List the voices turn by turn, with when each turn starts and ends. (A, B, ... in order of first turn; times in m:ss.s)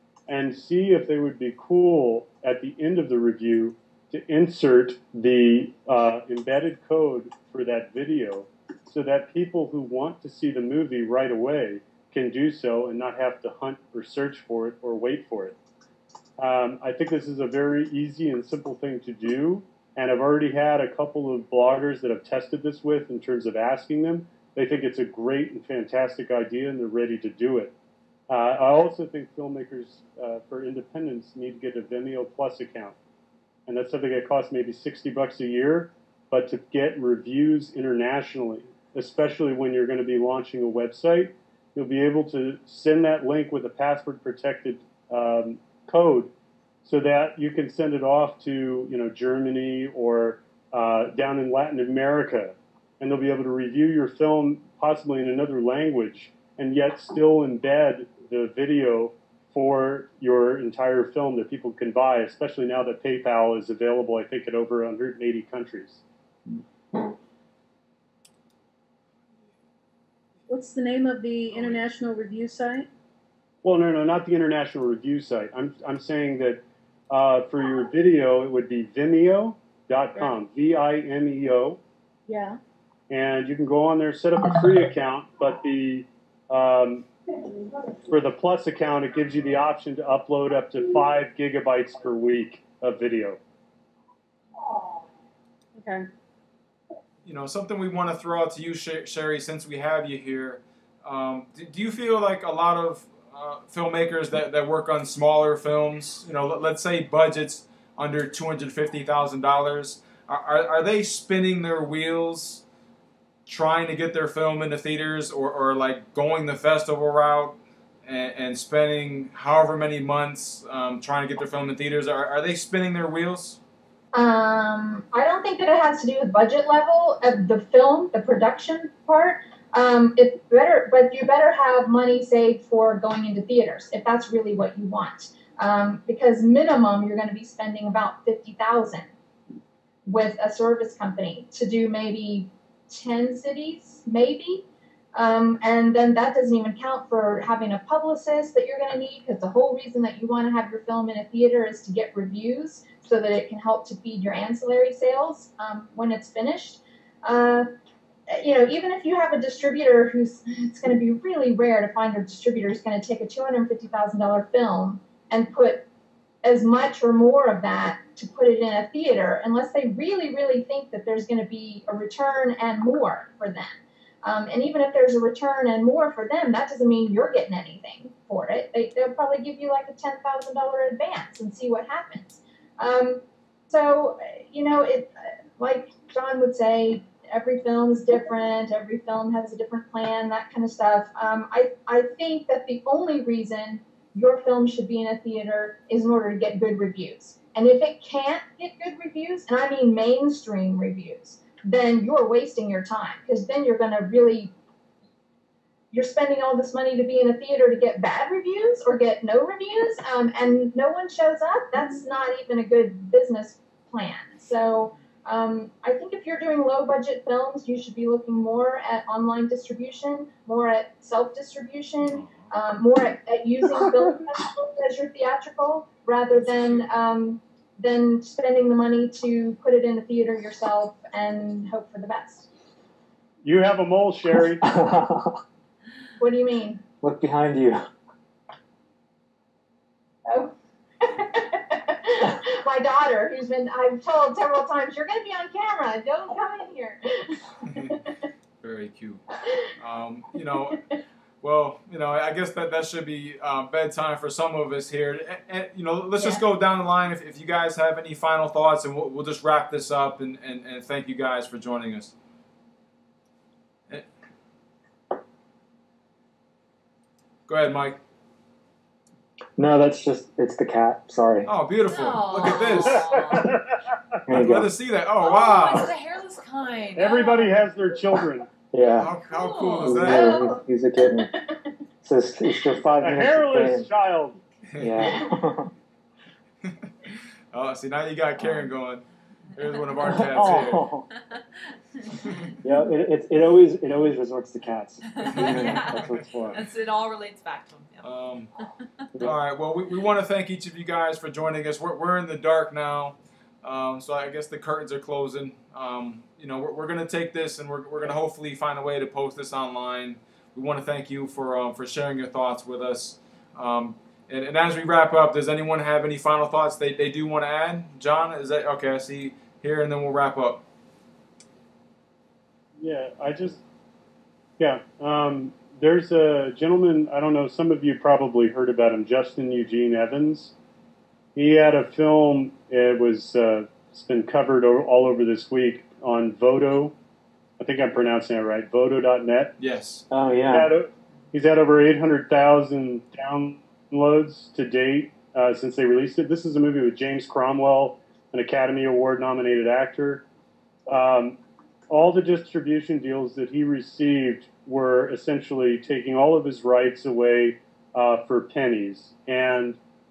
0:00.3-0:15.6 A
0:16.4-0:27.7 A
0:28.3-0:33.0 A
0:33.7-0:46.3 A
0:46.8-1:06.0 A
1:10.5-1:12.9 B
1:11.5-1:11.8 C
1:13.6-1:21.8 A
1:22.3-1:22.6 B
1:23.1-1:27.1 A
1:28.1-1:33.4 A
1:35.8-1:36.0 B
1:37.2-1:52.6 C
1:53.5-2:03.6 C
2:04.1-2:19.1 D
2:20.1-2:37.7 D
2:38.3-2:45.9 D
2:46.4-3:24.5 D
3:25.9-3:52.5 D
3:42.1-3:42.5 C
3:46.5-3:46.8 C
3:53.4-3:54.6 A
3:54.6-3:55.4 E
3:56.2-3:56.8 D
3:57.0-3:57.8 E
4:00.3-4:08.1 D
4:08.6-4:09.2 C
4:09.8-4:10.8 C
4:11.4-4:22.1 C
4:27.5-4:28.0 C
4:29.6-4:31.5 E
4:31.5-4:33.2 C
4:31.9-4:33.5 F
4:32.9-4:33.8 A
4:34.3-4:34.7 E
4:34.3-4:35.9 C
4:35.2-4:37.6 F
4:37.0-4:38.5 A
4:38.7-4:39.1 E
4:39.0-4:40.4 C
4:39.3-4:40.1 F
4:39.8-4:41.3 E
4:40.1-4:41.6 D
4:42.0-4:43.9 E
4:43.0-4:44.4 A
4:44.8-4:45.2 C
4:44.8-4:45.7 E
4:45.0-4:45.3 D
4:46.7-4:49.0 C
4:48.4-4:48.7 E
4:49.6-4:50.9 C
4:50.0-4:51.1 E
4:51.2-4:51.4 F
4:52.0-4:52.5 F
4:52.6-4:56.6 E
4:55.1-4:58.6 F
4:55.3-4:56.6 C
4:58.0-4:58.5 C
4:59.2-5:20.6 C
5:22.8-5:23.6 A
5:24.6-5:30.5 A
5:31.4-5:36.9 A
5:37.6-5:39.5 A
5:39.6-5:40.0 C
5:40.1-5:40.7 E
5:40.5-5:50.2 A
5:50.9-5:51.4 A
5:51.9-5:59.8 A